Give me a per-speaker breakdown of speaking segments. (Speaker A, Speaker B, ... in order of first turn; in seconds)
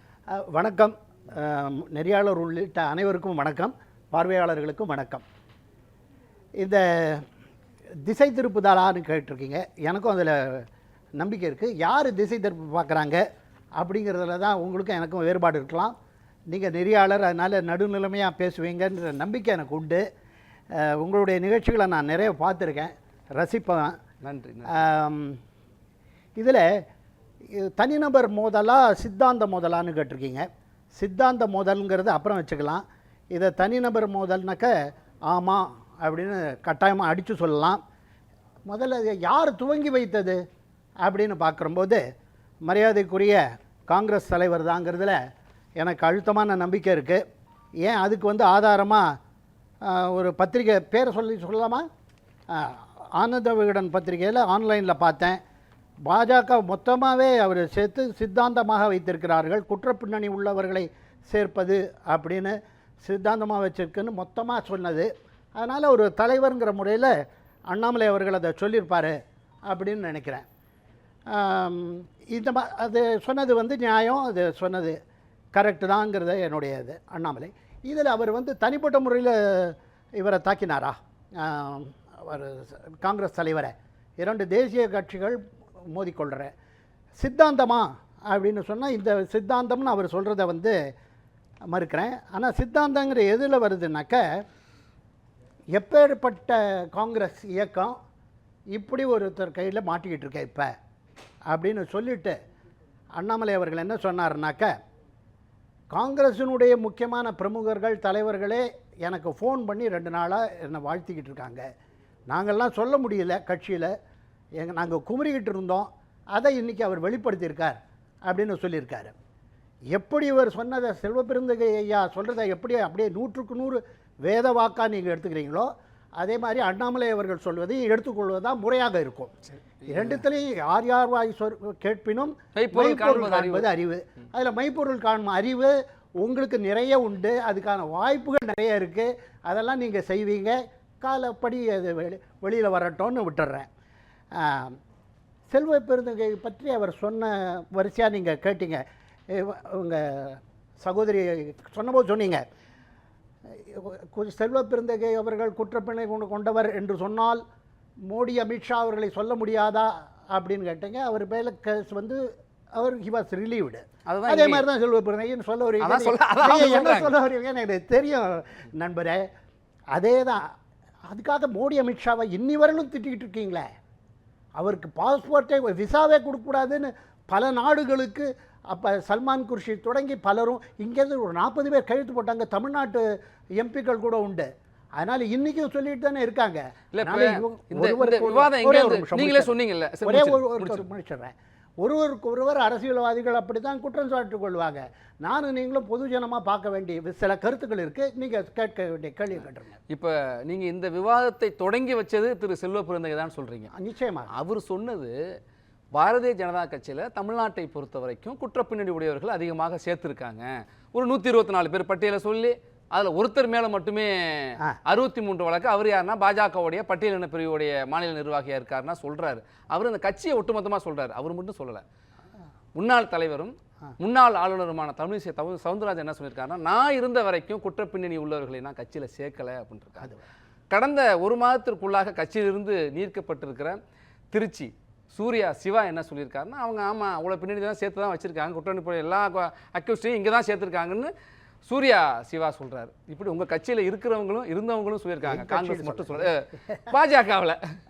Speaker A: 0.3-5.2, 6.6-7.2, 8.1-10.7, 11.2-13.2, 13.8-15.9, 16.5-20.0, 20.8-24.0, 24.7-25.4, 26.4-26.6, 27.5-30.4, 31.0-34.7, 35.3-37.8, 38.7-40.4, 41.0-42.0, 42.7-45.2, 45.8-47.2, 47.8-49.0, 49.9-51.9, 52.5-55.4, 56.1-67.1, 67.7-69.2, 69.7-70.5, 71.3-75.0, 75.5-85.4, 85.9-86.5, 87.2-90.8, 91.7-94.2, 95.8-98.0, 98.7-100.7, 101.5-102.4, 103.2-104.7, 105.9-111.6, 112.3-113.9, 114.6-119.1, 119.9-129.3, 129.9-143.7, 144.3-144.8, 145.5-152.4, 153.5-157.4, 158.1-162.2, 162.8-169.2, 169.9-170.4, 171.1-173.7, 174.6-183.0, 183.6-189.5, 190.0-199.8, 203.7-204.3, 245.2-246.8
Speaker B: 24.2-24.7, 129.6-130.2, 132.6-133.7, 164.1-164.7, 165.8-167.1, 186.9-190.9, 199.9-203.7, 204.3-205.1, 205.9-221.8, 222.8-230.1, 230.7-233.8, 234.3-241.1, 241.7-247.6